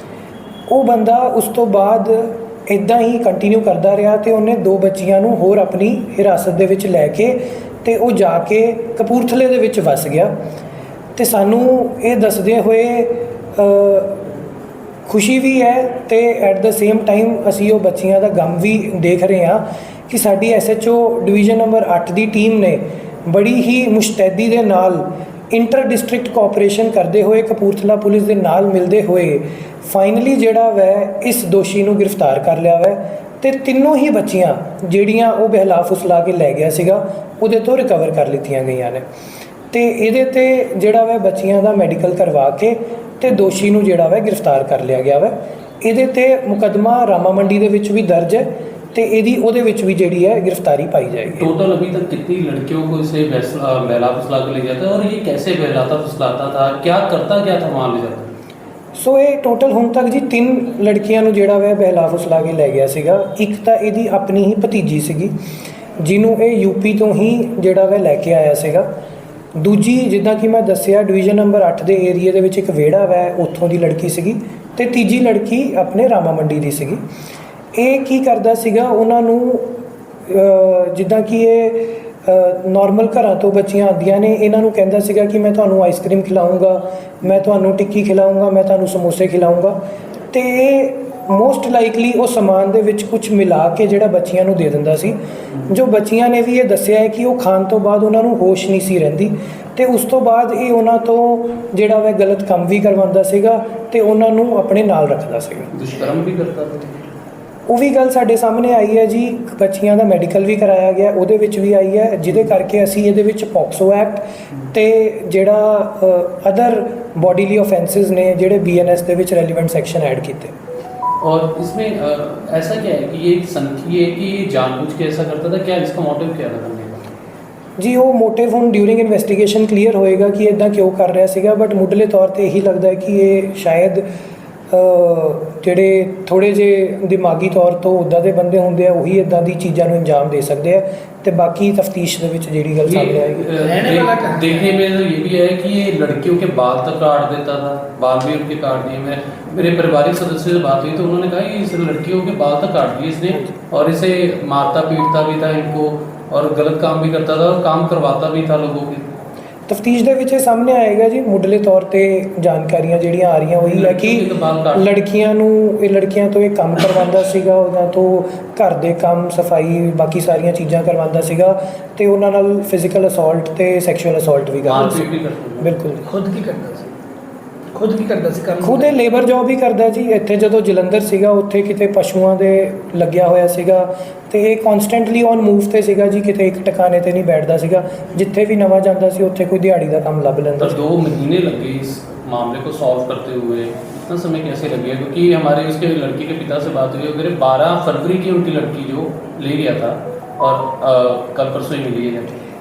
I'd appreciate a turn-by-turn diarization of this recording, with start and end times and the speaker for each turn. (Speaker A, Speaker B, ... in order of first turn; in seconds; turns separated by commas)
Speaker A: 0.7-10.3, Speaker A: 11.2-14.3, Speaker A: 15.1-39.0, Speaker A: 39.7-51.5, Speaker B: 51.4-58.4, Speaker A: 59.0-65.4, Speaker A: 66.0-68.9, Speaker A: 69.6-77.0, Speaker A: 77.8-89.8, Speaker A: 90.3-105.7, Speaker B: 105.7-107.0, Speaker A: 107.7-120.5, Speaker B: 121.2-127.1, Speaker A: 127.8-134.1, Speaker A: 134.7-143.6, Speaker B: 142.8-159.0, Speaker C: 143.6-144.7, Speaker A: 159.7-175.1, Speaker B: 163.6-164.9, Speaker B: 174.6-175.8, Speaker A: 175.6-176.1, Speaker C: 176.0-176.9, Speaker C: 177.7-178.9, Speaker A: 178.6-190.8, Speaker B: 190.6-202.4